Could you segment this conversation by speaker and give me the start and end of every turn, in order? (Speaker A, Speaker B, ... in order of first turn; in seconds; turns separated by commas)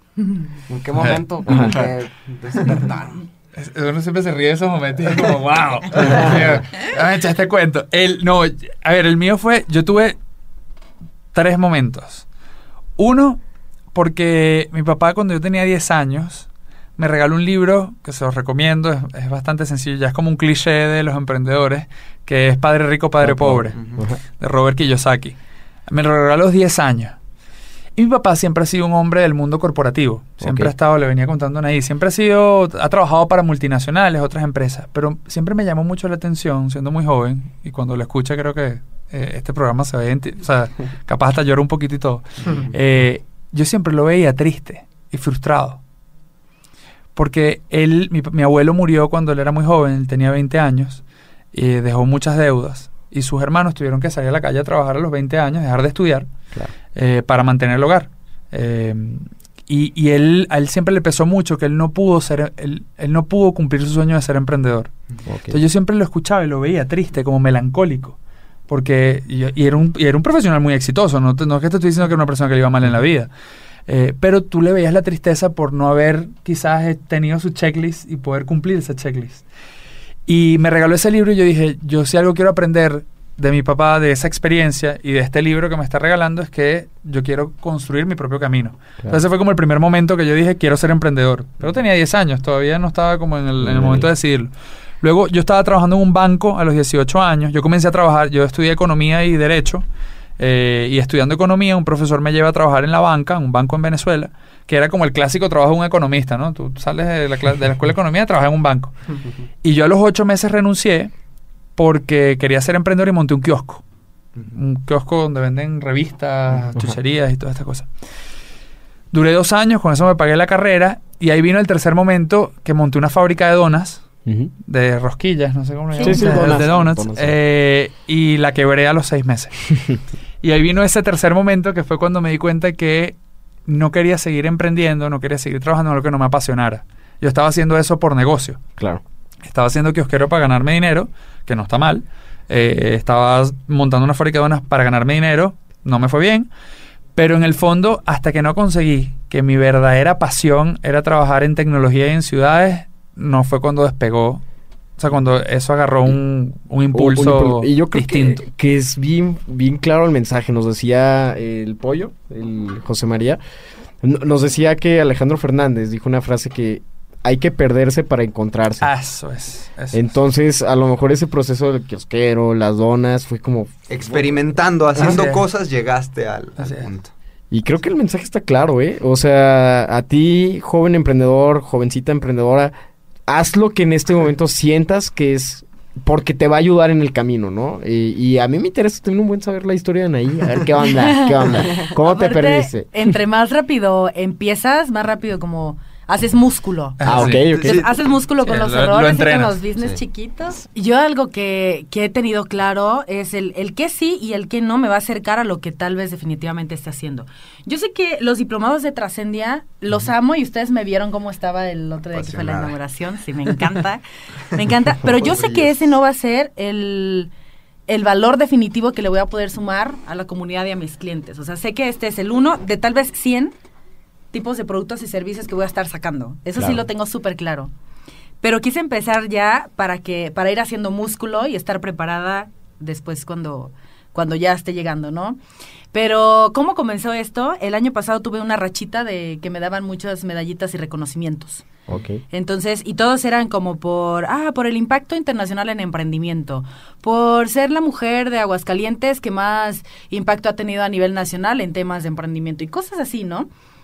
Speaker A: 0.7-3.2, Speaker B: 0.9-1.6, Speaker C: 1.4-1.8, Speaker B: 3.5-10.2, Speaker C: 6.0-6.6, Speaker B: 11.3-12.2, Speaker B: 13.0-13.4, Speaker B: 13.9-25.4, Speaker C: 23.2-24.2, Speaker B: 25.9-27.2, Speaker B: 28.0-45.8, Speaker C: 30.4-30.7, Speaker B: 47.1-51.0, Speaker B: 51.5-64.9, Speaker C: 65.3-65.6, Speaker B: 65.5-68.2, Speaker B: 68.7-73.3, Speaker B: 73.9-79.4, Speaker B: 80.3-99.8, Speaker C: 93.6-94.1, Speaker B: 100.4-108.9, Speaker B: 109.6-111.1, Speaker B: 111.8-113.8, Speaker B: 114.5-117.9, Speaker B: 119.1-124.1, Speaker C: 124.2-124.5, Speaker B: 124.7-129.8, Speaker D: 125.9-126.4, Speaker C: 126.0-127.3, Speaker B: 130.4-138.6, Speaker B: 139.4-146.5, Speaker B: 147.2-154.4, Speaker B: 155.0-158.4, Speaker C: 156.9-163.4, Speaker C: 164.0-168.9, Speaker B: 168.8-170.1, Speaker C: 169.9-173.7, Speaker E: 173.9-177.1, Speaker B: 174.9-175.4, Speaker B: 176.6-176.9, Speaker C: 177.5-182.7, Speaker C: 183.3-193.1, Speaker D: 191.0-217.3, Speaker B: 197.0-197.5, Speaker C: 197.0-197.8, Speaker B: 198.4-199.6, Speaker E: 212.1-212.7, Speaker E: 215.1-215.9, Speaker D: 217.9-223.5, Speaker D: 224.3-227.7, Speaker D: 228.4-235.4, Speaker D: 235.9-241.7, Speaker C: 241.9-242.2, Speaker D: 242.3-253.5